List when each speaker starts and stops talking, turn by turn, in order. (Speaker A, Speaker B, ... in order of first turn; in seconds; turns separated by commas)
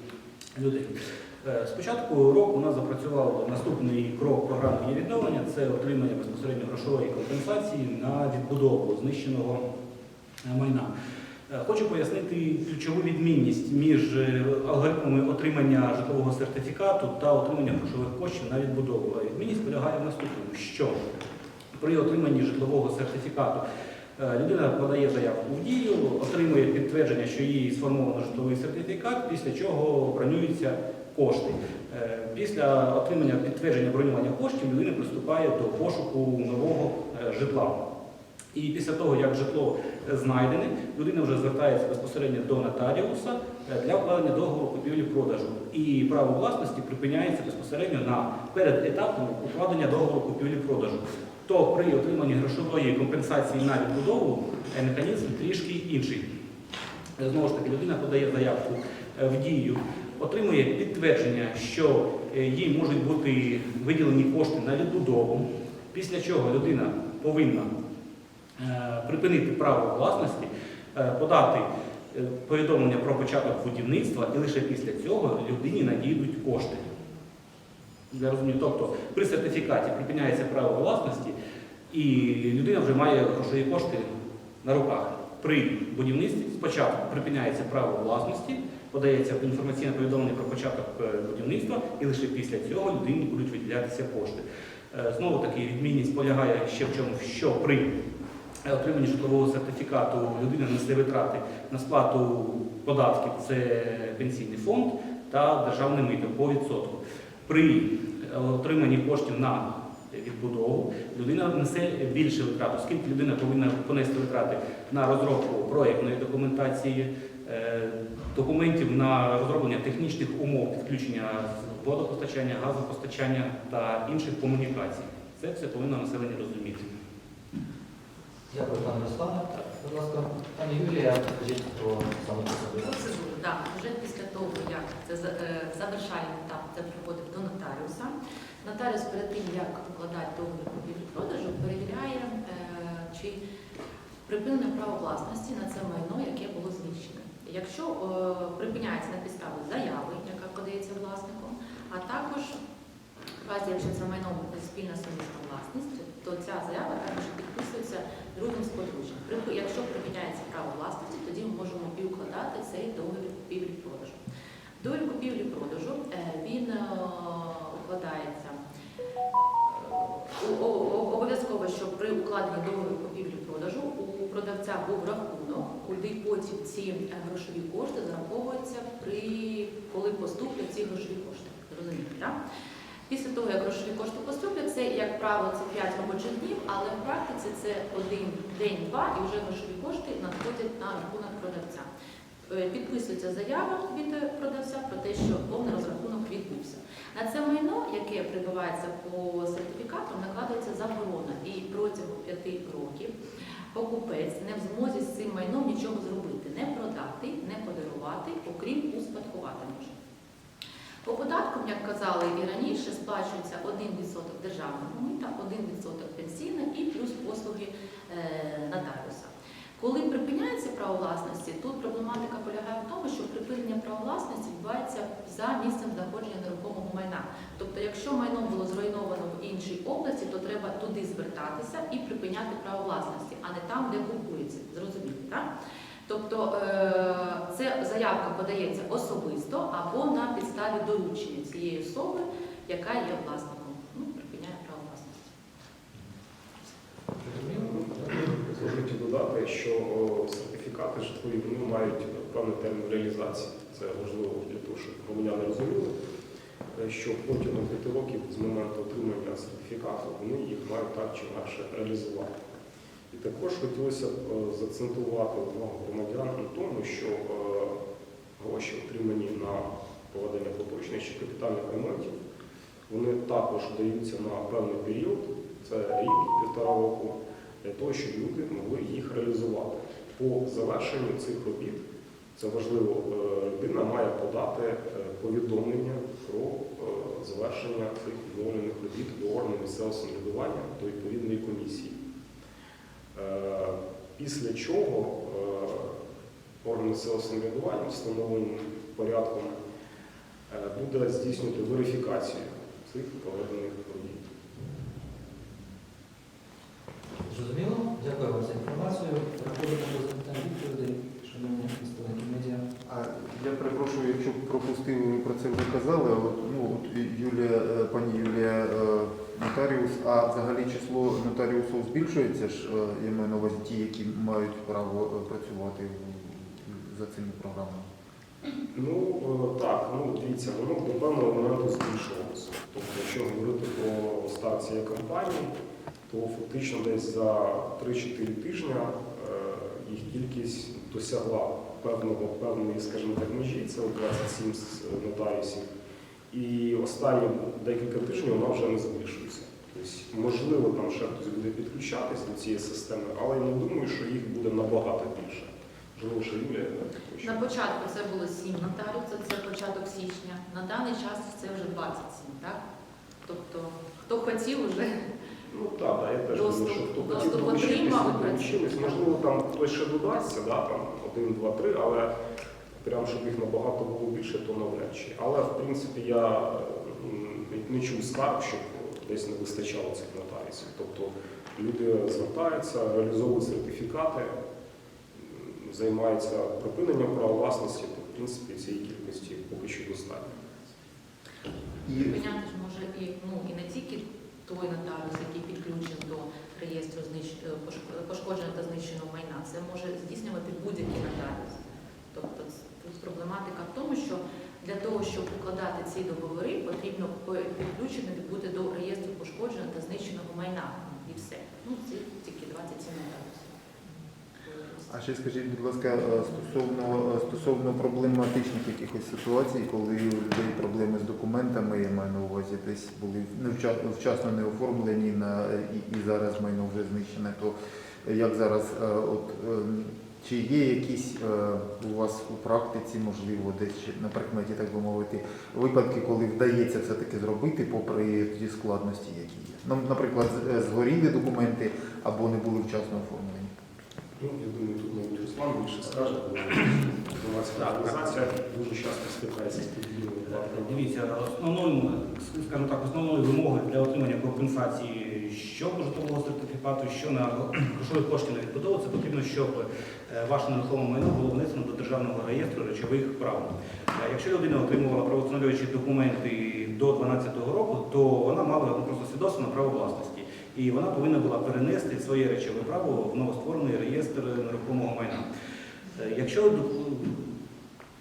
Speaker A: 0.5-9.6, Speaker A: 10.4-10.9, Speaker A: 11.5-21.0, Speaker A: 21.8-23.6, Speaker A: 24.2-37.8, Speaker A: 38.5-56.2, Speaker A: 57.2-67.7, Speaker A: 68.6-76.9, Speaker A: 78.1-81.3, Speaker A: 81.9-84.1, Speaker A: 84.6-98.0, Speaker A: 98.6-126.9, Speaker B: 128.5-132.9, Speaker C: 132.8-143.4, Speaker C: 144.2-152.6, Speaker C: 153.4-164.2, Speaker C: 164.8-168.6, Speaker C: 169.7-182.3, Speaker C: 183.1-191.9, Speaker C: 192.5-203.1, Speaker C: 203.7-210.0, Speaker C: 211.0-235.5, Speaker C: 236.1-245.2, Speaker B: 247.2-247.7, Speaker D: 247.4-255.9, Speaker D: 256.7-262.3, Speaker D: 263.1-267.8, Speaker D: 268.4-272.2, Speaker D: 272.9-281.8, Speaker D: 282.4-292.0, Speaker D: 293.1-296.0, Speaker D: 296.6-299.6, Speaker D: 300.5-304.2, Speaker B: 307.2-312.7, Speaker E: 312.8-327.9, Speaker D: 328.7-335.5, Speaker D: 336.1-345.7, Speaker D: 346.3-357.4, Speaker C: 357.2-362.6, Speaker C: 363.2-364.9, Speaker D: 365.5-372.1, Speaker C: 366.3-369.2, Speaker D: 372.8-384.3, Speaker D: 385.1-390.7, Speaker E: 391.8-392.2, Speaker C: 392.0-413.6, Speaker C: 414.4-414.9, Speaker E: 414.9-443.5, Speaker D: 444.2-450.9, Speaker A: 447.6-447.9, Speaker A: 450.3-475.3, Speaker A: 475.9-477.3